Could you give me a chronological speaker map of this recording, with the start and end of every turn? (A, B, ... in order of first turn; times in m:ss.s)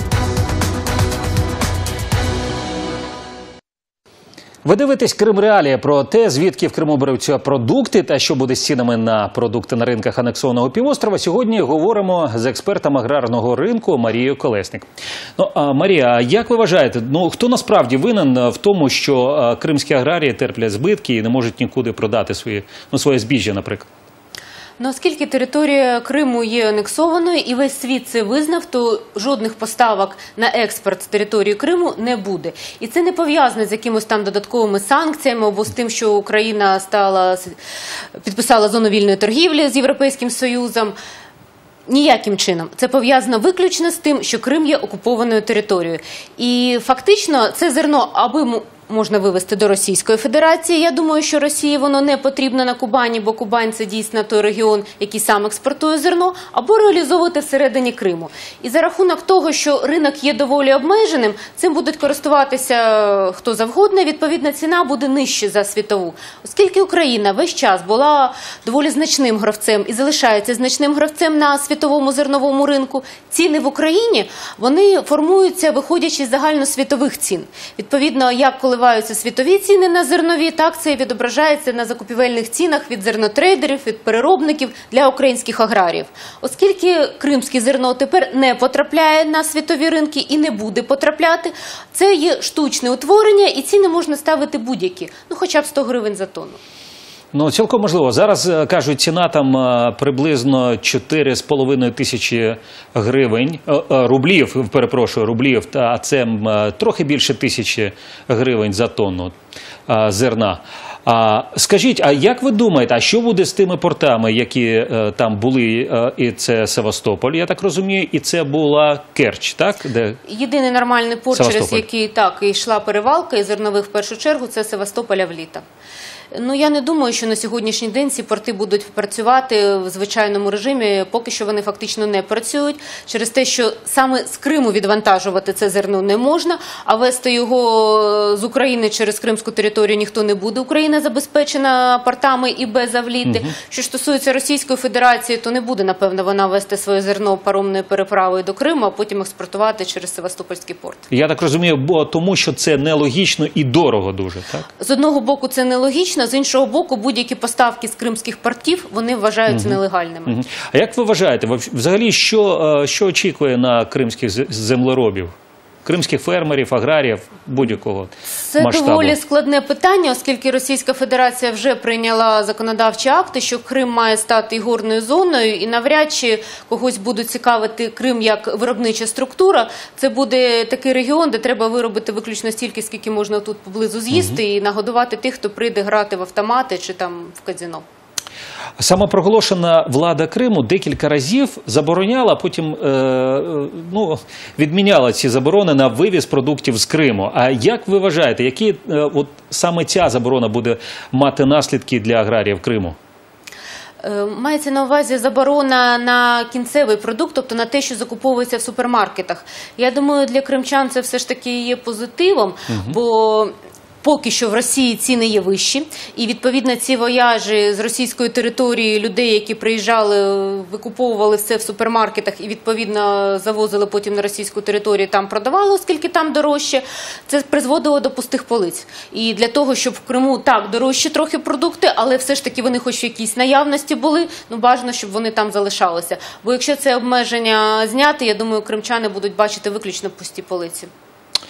0:04.6-0:14.8 A
0:15.4-0:23.8 A
0:24.8-0:37.6 B
0:38.2-0:41.0 B
0:41.9-1:36.6 B
1:37.3-1:49.3 A
1:49.9-2:00.2 A
2:00.3-2:05.6 B
2:01.3-2:01.8 A
2:06.3-2:31.0 B
2:23.2-2:23.5 A
2:31.1-2:34.6 A
2:34.8-2:40.3 B
2:39.5-2:45.3 A
2:45.8-2:49.1 A
2:48.3-3:07.8 B
3:08.8-3:23.0 A
3:24.0-3:33.5 B
3:34.0-4:00.9 B